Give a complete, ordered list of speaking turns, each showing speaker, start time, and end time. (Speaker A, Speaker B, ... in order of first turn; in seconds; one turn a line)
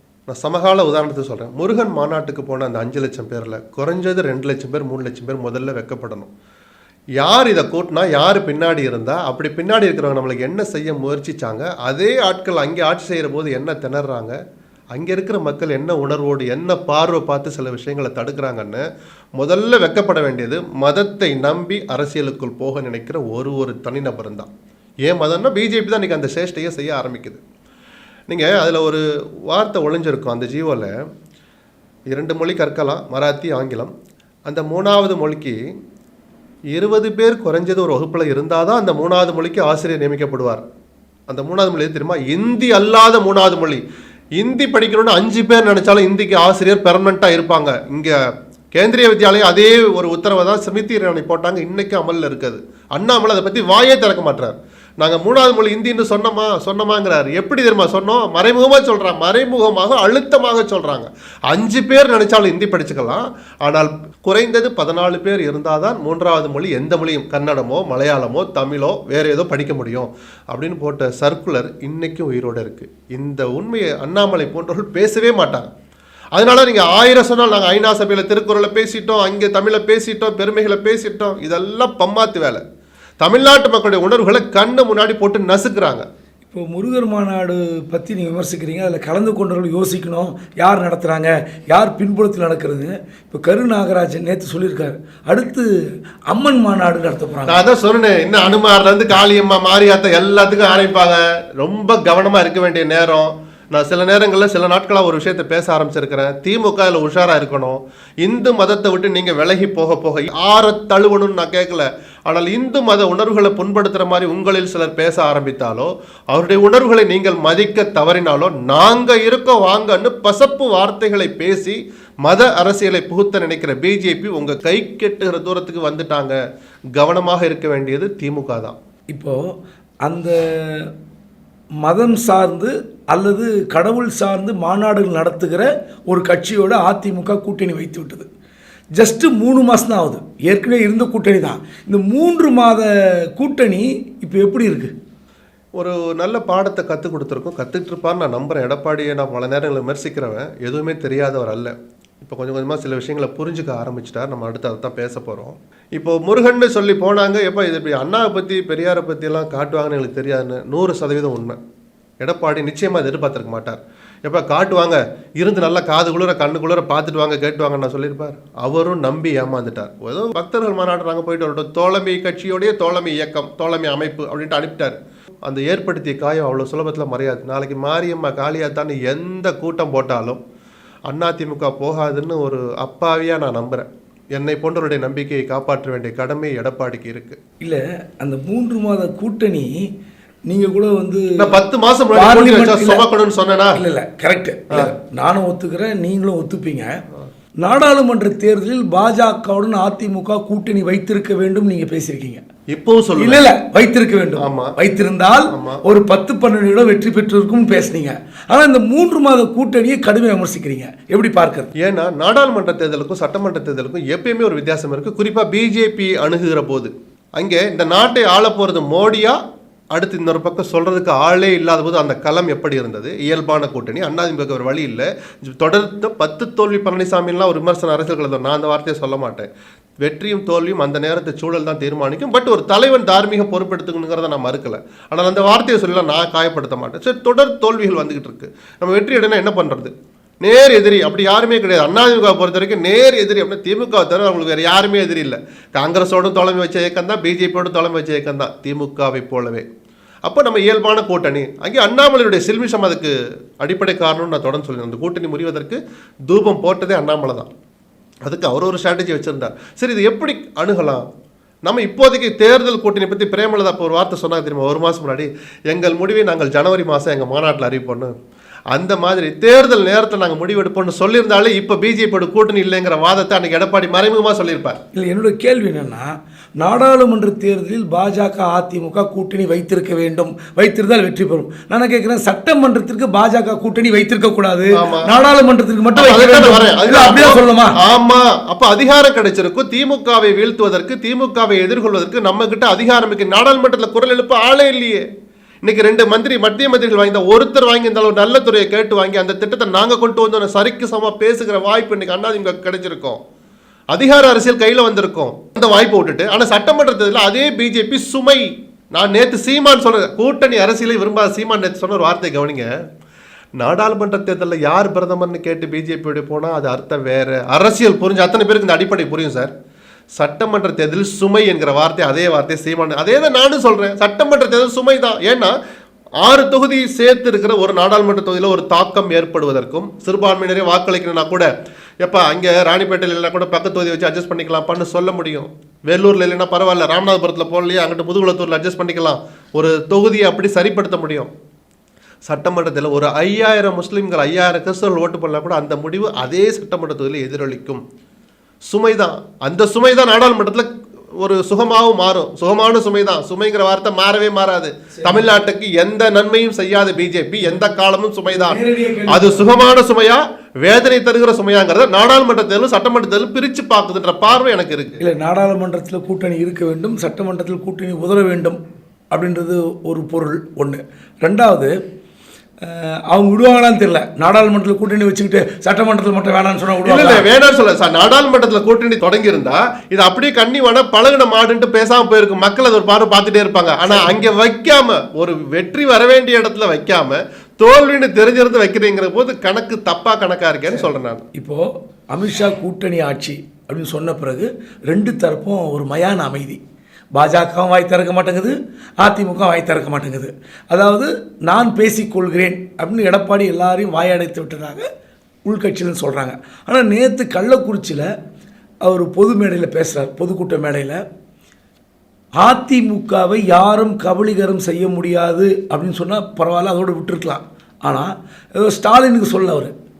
Speaker A: 0.3-6.3
Speaker A: 7.2-14.4
Speaker A: 14.9-18.8
Speaker A: 19.4-24.5
Speaker A: 25.1-27.4
Speaker A: 28.3-30.9
Speaker A: 32.1-33.9
Speaker A: 34.5-35.6
Speaker A: 36.7-40.6
Speaker A: 41.3-43.8
Speaker A: 44.4-48.1
Speaker A: 48.8-75.7
Speaker A: 76.3-82.6
Speaker A: 83.2-86.0
Speaker B: 86.5-95.7
Speaker B: 96.3-97.6
Speaker A: 97.5-126.4
Speaker A: 127.0-128.8
Speaker B: 129.1-129.5
Speaker B: 130.1-130.9
Speaker B: 131.8-138.3
Speaker B: 139.0-144.9
Speaker A: 145.8-161.6
Speaker A: 162.2-180.4
Speaker A: 181.1-187.4
Speaker B: 187.6-189.8
Speaker B: 190.5-191.5
Speaker A: 191.4-193.8
Speaker B: 192.1-193.0
Speaker B: 193.7-196.9
Speaker B: 197.6-202.4
Speaker A: 202.7-203.4
Speaker B: 203.2-211.7
Speaker A: 204.4-204.7
Speaker A: 205.5-205.8
Speaker A: 211.8-219.4
Speaker A: 219.9-229.5
Speaker A: 230.0-249.7
Speaker A: 250.2-257.5
Speaker A: 258.2-261.0
Speaker A: 261.6-268.1
Speaker A: 268.7-274.8
Speaker B: 274.9-287.8
Speaker A: 284.7-285.1
Speaker A: 285.9-295.0
Speaker A: 295.6-303.2
Speaker A: 303.9-312.7
Speaker A: 313.6-319.5
Speaker A: 320.1-325.6
Speaker A: 326.2-331.5
Speaker A: 332.0-341.3
Speaker A: 342.2-347.8
Speaker A: 348.7-365.0
Speaker B: 354.9-355.2
Speaker B: 358.3-359.5
Speaker B: 365.0-368.6
Speaker B: 369.1-371.7
Speaker B: 372.6-377.2
Speaker A: 376.8-391.2
Speaker B: 383.9-384.2
Speaker B: 391.3-396.6
Speaker B: 397.1-404.9
Speaker B: 405.4-408.1
Speaker B: 408.8-411.0
Speaker B: 412.4-419.7